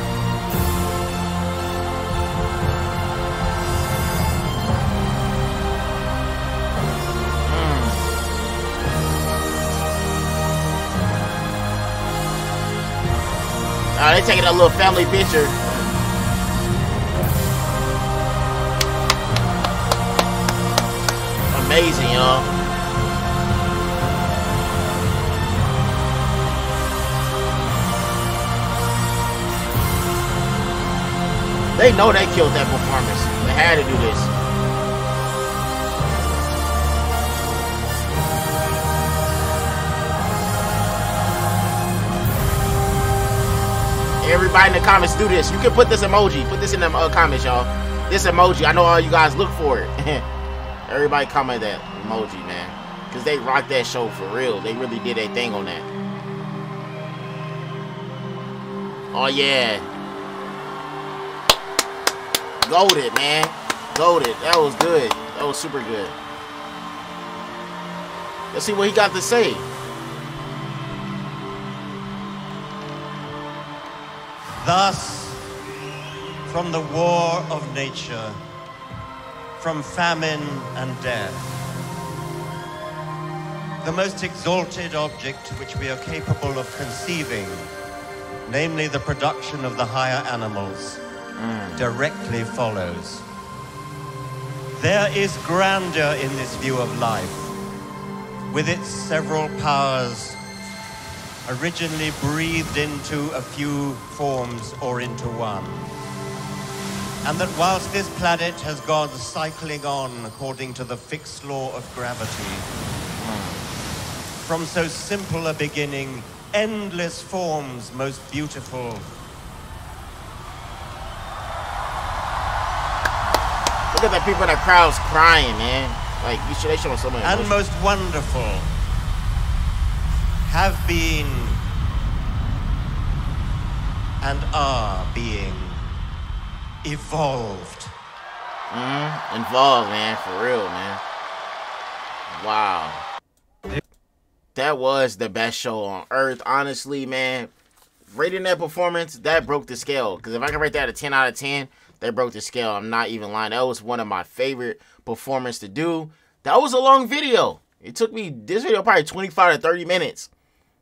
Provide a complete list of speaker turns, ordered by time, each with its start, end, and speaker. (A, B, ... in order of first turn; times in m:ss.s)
0:07.4-0:08.0 A
0:14.0-0:15.6 A
0:21.5-0:22.5 A
0:31.7-0:34.3 A
0:44.2-0:50.2 A
0:50.9-0:55.9 A
0:59.1-0:59.8 A
1:02.6-1:06.1 A
1:08.5-1:09.6 A
1:14.6-1:15.4 B
1:16.4-1:18.4 B
1:19.6-1:21.5 B
1:23.8-1:27.7 B
1:28.4-1:31.0 B
1:31.4-1:31.8 A
1:31.8-1:33.2 B
1:34.7-1:37.5 B
1:38.5-1:40.4 B
1:41.4-1:45.9 B
1:47.2-1:52.7 B
1:53.2-1:53.6 A
1:54.4-1:59.1 B
2:03.9-2:07.5 A
2:07.2-2:08.7 B
2:10.4-2:11.6 B
2:14.2-2:15.8 B
2:16.8-2:17.9 B
2:18.7-2:21.0 A
2:22.3-2:23.0 A
2:24.5-2:27.5 A
2:28.1-2:40.3 A